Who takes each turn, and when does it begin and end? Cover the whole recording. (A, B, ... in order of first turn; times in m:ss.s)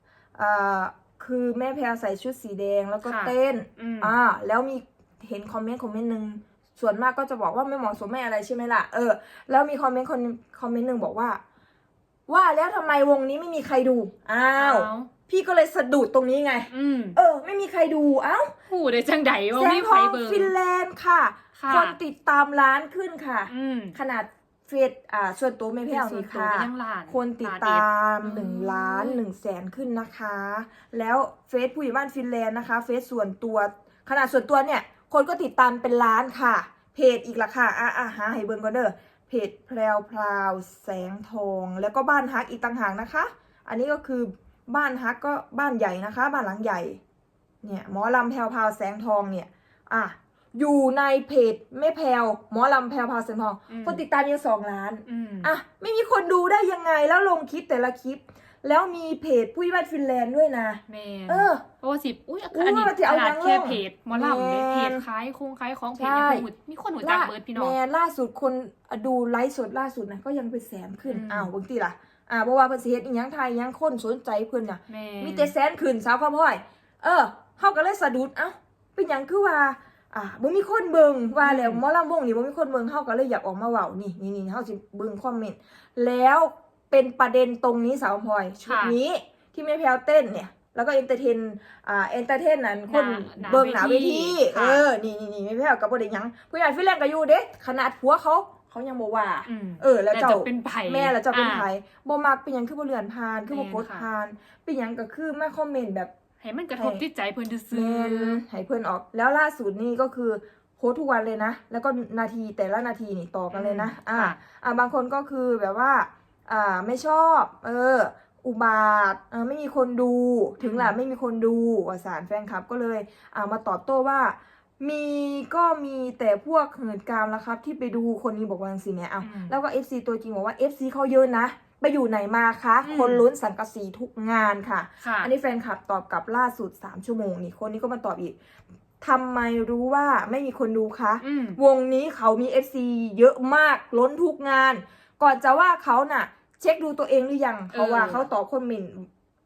0:00.4-0:11.4 A
0:03.1-0:04.2 B
0:12.3-0:18.5 A
0:14.6-0:15.1 B
0:16.7-0:17.2 B
0:18.7-0:20.5 B
0:19.5-0:47.0 A
0:21.6-0:22.0 B
0:23.5-0:24.0 B
0:25.9-0:29.2 B
0:47.6-1:01.6 A
0:53.7-0:54.0 B
0:55.1-0:55.5 B
1:00.9-1:07.8 B
1:02.5-1:05.0 A
1:06.0-1:06.5 A
1:07.0-1:46.1 A
1:11.1-1:11.5 B
1:14.9-1:15.5 B
1:21.4-1:21.8 B
1:28.7-1:29.0 B
1:32.9-1:34.8 B
1:39.5-1:41.7 B
1:43.5-1:44.1 B
1:46.4-1:48.4 B
1:46.8-1:47.0 A
1:47.7-2:18.4 A
1:53.5-1:54.4 B
2:00.6-2:01.0 B
2:09.2-2:09.6 B
2:12.8-2:13.2 B
2:15.0-2:15.3 B
2:19.0-2:29.1 A
2:21.2-2:21.6 B
2:27.7-2:28.3 B